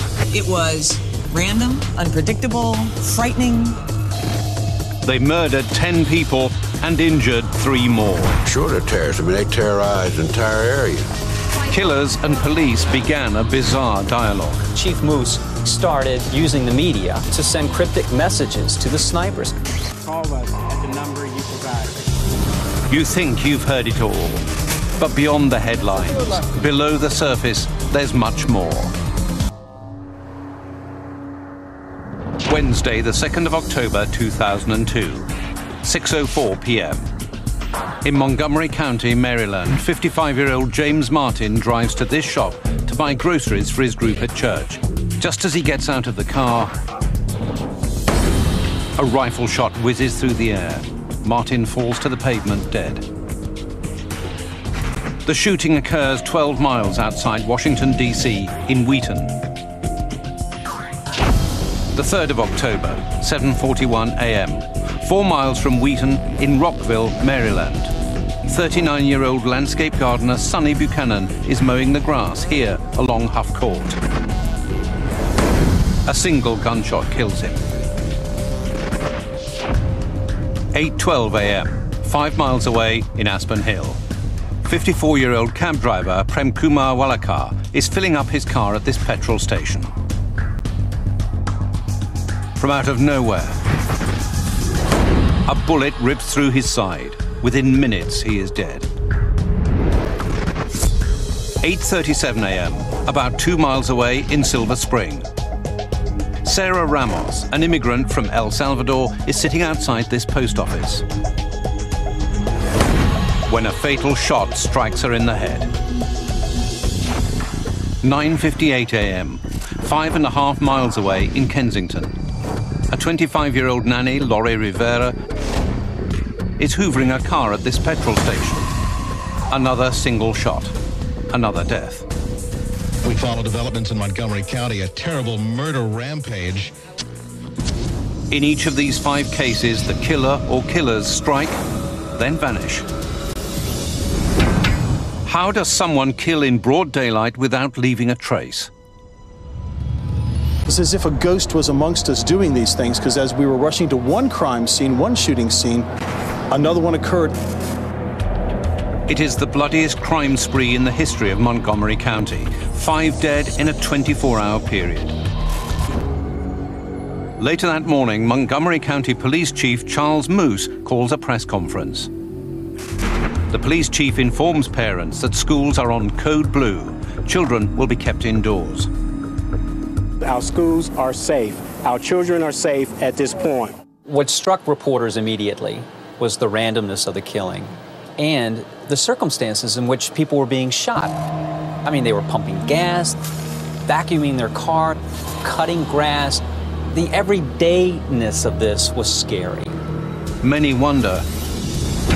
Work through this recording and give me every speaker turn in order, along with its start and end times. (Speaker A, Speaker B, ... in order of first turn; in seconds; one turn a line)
Speaker A: 0.3-3.8
Speaker B: 5.0-8.4
Speaker C: 8.4-11.1
Speaker B: 11.7-14.7
Speaker D: 14.7-19.6
Speaker E: 20.0-22.1
Speaker B: 22.9-24.5
Speaker B: 25.0-28.9
Speaker B: 32.5-35.3
Speaker B: 35.8-37.0
Speaker B: 38.0-46.7
Speaker B: 49.0-53.0
Speaker B: 55.2-59.4
Speaker B: 62.0-67.9
Speaker B: 68.5-74.0
Speaker B: 76.1-77.6
Speaker B: 80.7-84.0
Speaker B: 84.6-89.9
Speaker B: 92.6-93.6
Speaker B: 95.5-98.9
Speaker B: 101.6-105.3
Speaker B: 106.5-111.0
Speaker B: 113.5-115.7
Speaker B: 118.0-122.1
Speaker B: 122.9-125.2
Speaker B: 126.6-128.7
Speaker B: 129.5-130.8
Speaker B: 131.3-132.1
Speaker F: 133.0-136.7
Speaker B: 138.3-141.6
Speaker B: 142.1-142.9
Speaker B: 145.2-148.7
Speaker G: 150.7-155.9
Speaker G: 156.5-157.4
Speaker B: 159.1-165.2
Speaker B: 167.4-172.1
Speaker B: 173.5-178.9
Speaker E: 180.2-183.8
Speaker D: 184.1-191.2
Speaker D: 191.8-193.2
Speaker D: 193.8-199.8
Speaker B: 200.4-201.3